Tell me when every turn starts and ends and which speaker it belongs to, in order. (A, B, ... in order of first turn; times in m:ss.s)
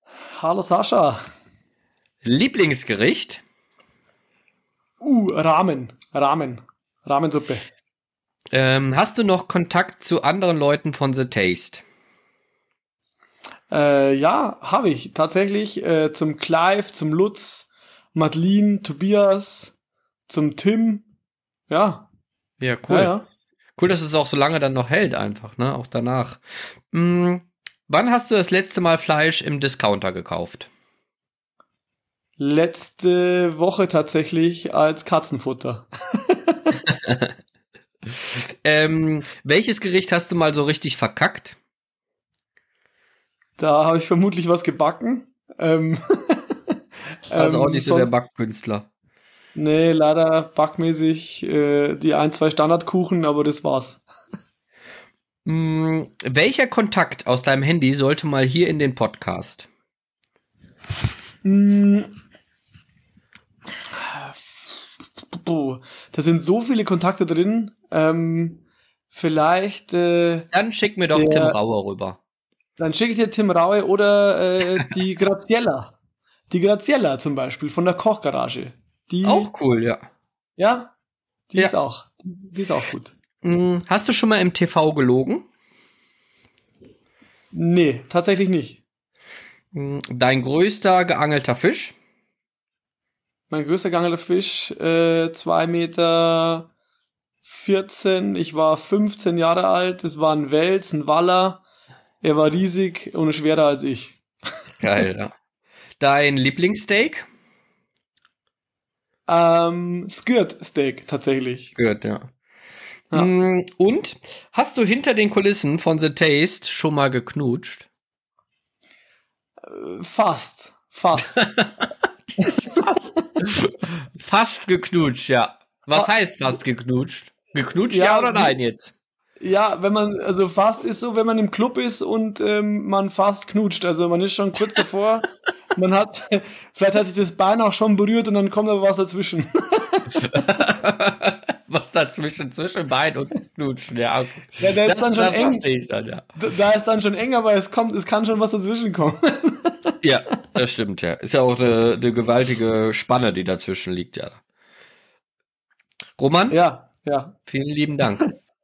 0:00.4-0:01.2 A
0:02.2-0:03.4 B
0:05.0-0:07.7 A
0:08.5-0:11.8 B
0:13.7-0:19.7 A
0:20.3-0:21.1 A
0:21.7-0:22.1 A
0:22.6-0:23.1 B
0:22.9-0:23.3 A
0:23.8-0:30.7 B
0:32.4-0:36.7 A
0:38.6-0:41.6 B
0:43.6-0:46.4 A
0:47.3-0:48.2 A
0:47.3-0:48.9 B
0:49.6-0:54.0 A
0:55.5-0:59.7 B
1:01.4-1:02.1 A
1:03.9-1:10.5 A
1:10.5-1:12.2 B
1:11.1-1:11.6 A
1:12.8-1:16.0 A
1:16.5-1:19.5 A
1:19.2-1:20.1 B
1:20.6-1:20.9 A
1:21.5-1:23.1 A
1:23.4-1:25.5 B
1:27.5-1:28.8 A
1:29.7-1:32.0 B
1:33.5-1:36.7 A
1:37.4-1:41.6 A
1:42.2-1:44.2 A
1:44.8-1:45.3 B
1:46.0-1:47.3 B
1:49.3-1:51.8 A
1:51.8-1:52.3 B
1:53.1-1:57.9 B
1:59.7-2:01.5 A
2:02.4-2:03.2 A
2:03.4-2:08.9 B
2:07.9-2:08.6 A
2:09.4-2:20.1 A
2:20.2-2:26.3 B
2:24.6-2:25.7 A
2:26.4-2:29.9 A
2:30.0-2:34.4 B
2:36.2-2:36.6 B
2:36.5-2:37.4 A
2:37.5-2:38.3 B